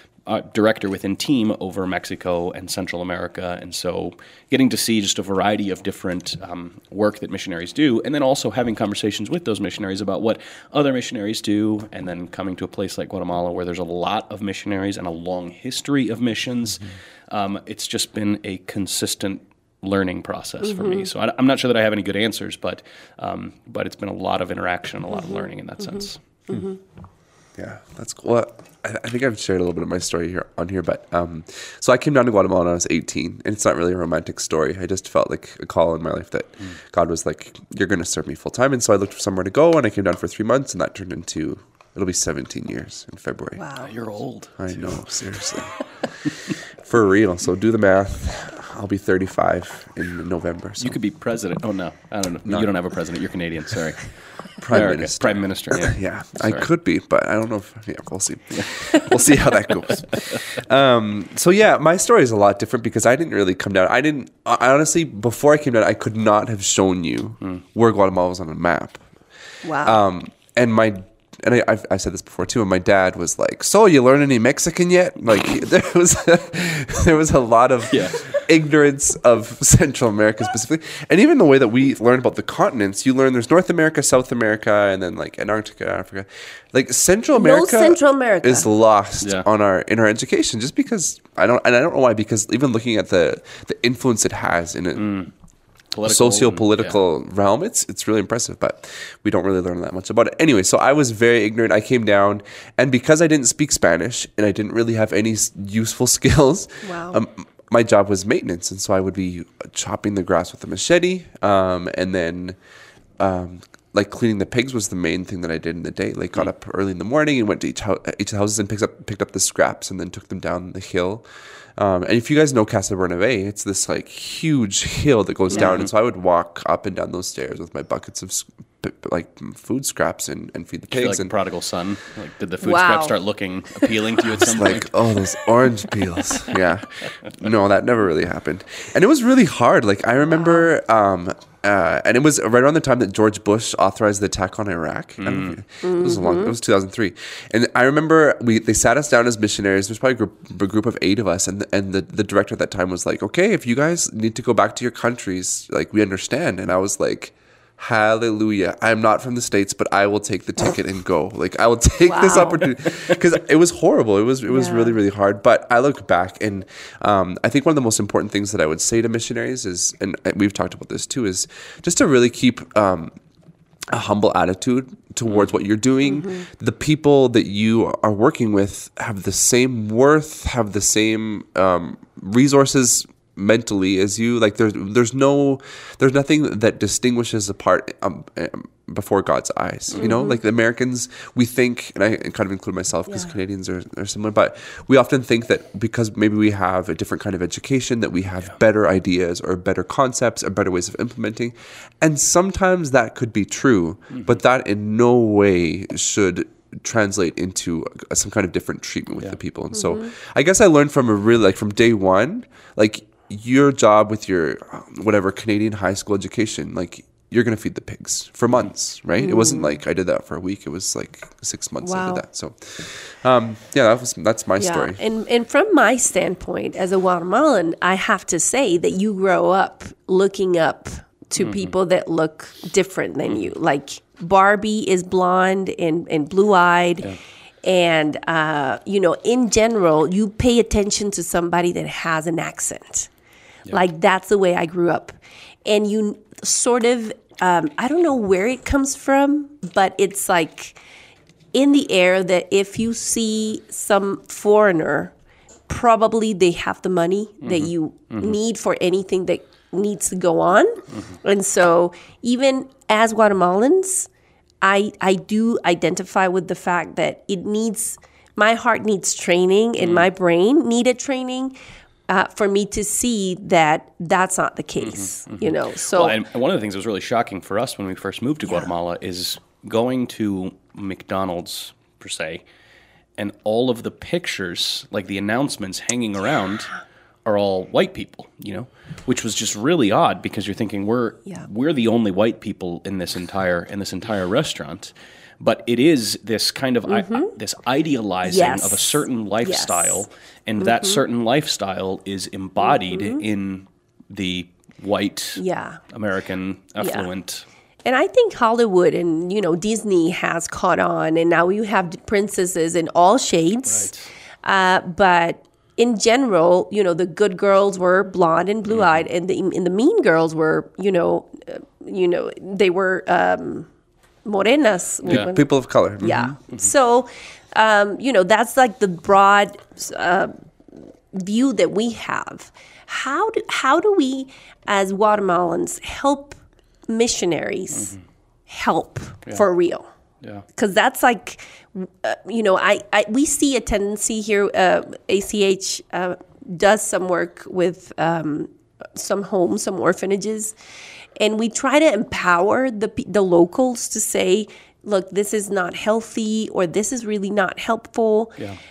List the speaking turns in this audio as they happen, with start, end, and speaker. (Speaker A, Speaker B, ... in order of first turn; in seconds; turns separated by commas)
Speaker A: 0.3-26.6, Speaker B: 20.6-21.1, Speaker B: 25.2-25.5, Speaker B: 26.5-26.8, Speaker C: 27.6-43.6, Speaker B: 43.6-43.9, Speaker A: 43.8-45.0, Speaker C: 44.6-45.8, Speaker C: 46.8-51.0, Speaker A: 50.8-54.1, Speaker C: 54.6-69.0, Speaker A: 54.6-56.7, Speaker A: 58.5-58.8, Speaker B: 69.6-70.0, Speaker C: 69.8-95.1, Speaker A: 77.9-78.2, Speaker B: 87.3-88.7, Speaker A: 95.0-95.3, Speaker A: 95.9-97.0, Speaker C: 96.0-112.6, Speaker B: 106.8-107.2, Speaker C: 113.2-121.2, Speaker C: 121.8-131.3, Speaker A: 125.5-125.9, Speaker A: 130.9-135.1, Speaker B: 132.6-133.2, Speaker C: 134.3-173.1, Speaker B: 140.3-140.6, Speaker A: 145.2-145.6, Speaker B: 145.8-146.6, Speaker B: 162.0-162.7, Speaker B: 164.5-165.0, Speaker C: 173.9-225.0, Speaker B: 176.0-176.5, Speaker B: 190.0-190.4, Speaker A: 204.1-204.4, Speaker B: 209.8-210.1, Speaker B: 219.2-219.7, Speaker B: 221.8-222.2, Speaker B: 224.6-237.1, Speaker A: 231.4-231.7, Speaker B: 237.6-243.1, Speaker B: 243.7-250.8, Speaker B: 251.5-255.1, Speaker B: 255.7-264.1, Speaker A: 257.4-258.4, Speaker B: 264.6-271.6, Speaker A: 269.8-270.1, Speaker B: 272.1-276.2, Speaker A: 274.8-282.4, Speaker A: 283.2-286.7, Speaker A: 287.2-307.4, Speaker B: 296.9-297.3, Speaker B: 298.2-300.0, Speaker B: 300.6-301.0, Speaker B: 302.7-303.2, Speaker B: 305.4-305.8, Speaker B: 306.8-307.1, Speaker B: 307.9-313.9, Speaker A: 313.7-314.1, Speaker B: 314.4-323.7, Speaker A: 318.7-319.0, Speaker B: 324.2-325.5, Speaker C: 325.1-326.3, Speaker B: 326.0-330.3, Speaker B: 331.1-336.4, Speaker B: 336.9-337.9, Speaker B: 338.5-339.9, Speaker B: 340.6-350.6, Speaker B: 351.2-358.4